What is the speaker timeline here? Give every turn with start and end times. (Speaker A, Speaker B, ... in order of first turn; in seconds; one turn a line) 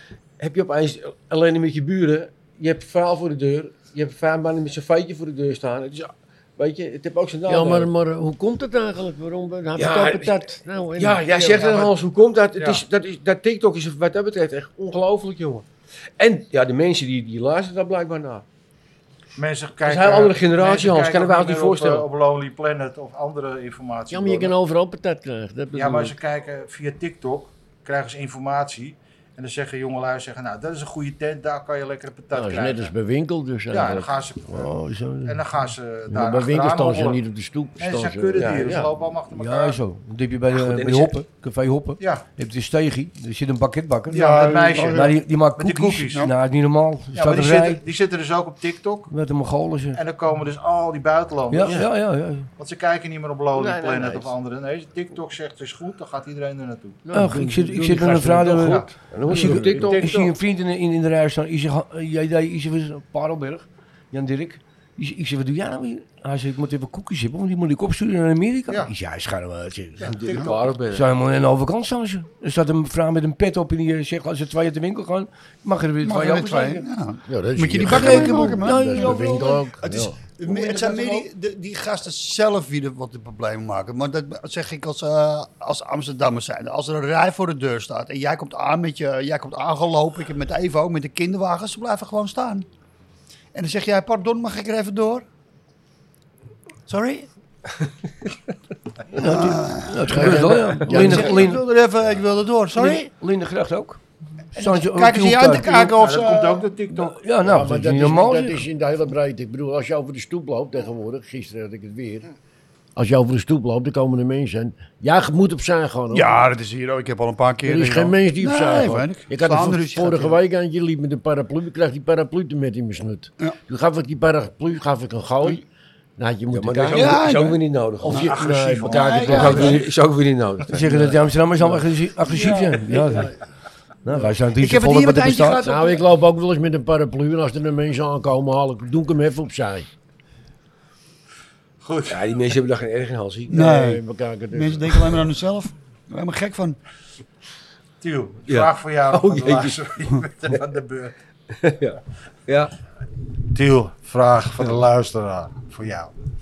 Speaker A: 0.4-7.9
Speaker B: 7.5-11.9
Speaker A: 9.8-15.7
Speaker C: 12.6-12.8
Speaker A: 16.2-18.4
Speaker C: 19.4-24.5
Speaker A: 19.9-22.1
Speaker B: 24.1-26.2
Speaker C: 25.7-32.9
Speaker B: 32.3-34.1
Speaker C: 33.7-34.7
Speaker D: 34.5-35.4
Speaker C: 35.2-37.2
Speaker B: 36.1-38.9
Speaker C: 37.8-39.8
Speaker A: 38.4-38.8
Speaker D: 39.3-47.8
Speaker A: 40.5-41.1
Speaker C: 42.0-42.2
Speaker C: 44.1-46.3
Speaker E: 44.1-45.1
Speaker C: 47.1-49.1
Speaker D: 49.1-50.0
Speaker C: 49.9-51.9
Speaker D: 51.5-52.5
Speaker C: 52.6-57.0
Speaker A: 53.5-54.3
Speaker B: 57.0-60.1
Speaker D: 57.1-70.1
Speaker C: 58.4-58.9
Speaker A: 59.1-60.3
Speaker C: 70.0-70.5
Speaker A: 70.0-71.1
Speaker D: 70.9-76.8
Speaker E: 76.0-92.7
Speaker B: 77.3-80.2
Speaker D: 77.8-79.6
Speaker D: 80.4-81.2
Speaker E: 93.5-95.2
Speaker E: 96.9-97.3
Speaker D: 99.1-101.6
Speaker E: 99.2-103.1
Speaker B: 100.1-101.5
Speaker D: 102.8-104.0
Speaker D: 104.6-105.7
Speaker E: 104.6-106.7
Speaker C: 105.6-107.1
Speaker D: 106.9-108.7
Speaker B: 107.4-112.3
Speaker B: 113.0-116.4
Speaker E: 116.1-120.4
Speaker B: 117.6-125.7
Speaker B: 126.2-127.3
Speaker A: 126.5-131.2
Speaker E: 126.9-129.8
Speaker B: 128.0-129.8
Speaker D: 130.7-133.3
Speaker E: 132.3-133.3
Speaker B: 132.9-133.2
Speaker D: 134.0-135.7
Speaker E: 134.6-136.0
Speaker B: 135.6-139.9
Speaker C: 141.8-142.2
Speaker A: 142.1-143.6
Speaker B: 143.5-145.3
Speaker E: 143.5-144.0
Speaker E: 144.5-146.8
Speaker C: 148.0-151.1
Speaker A: 148.5-149.9
Speaker A: 151.6-152.7
Speaker C: 153.5-156.1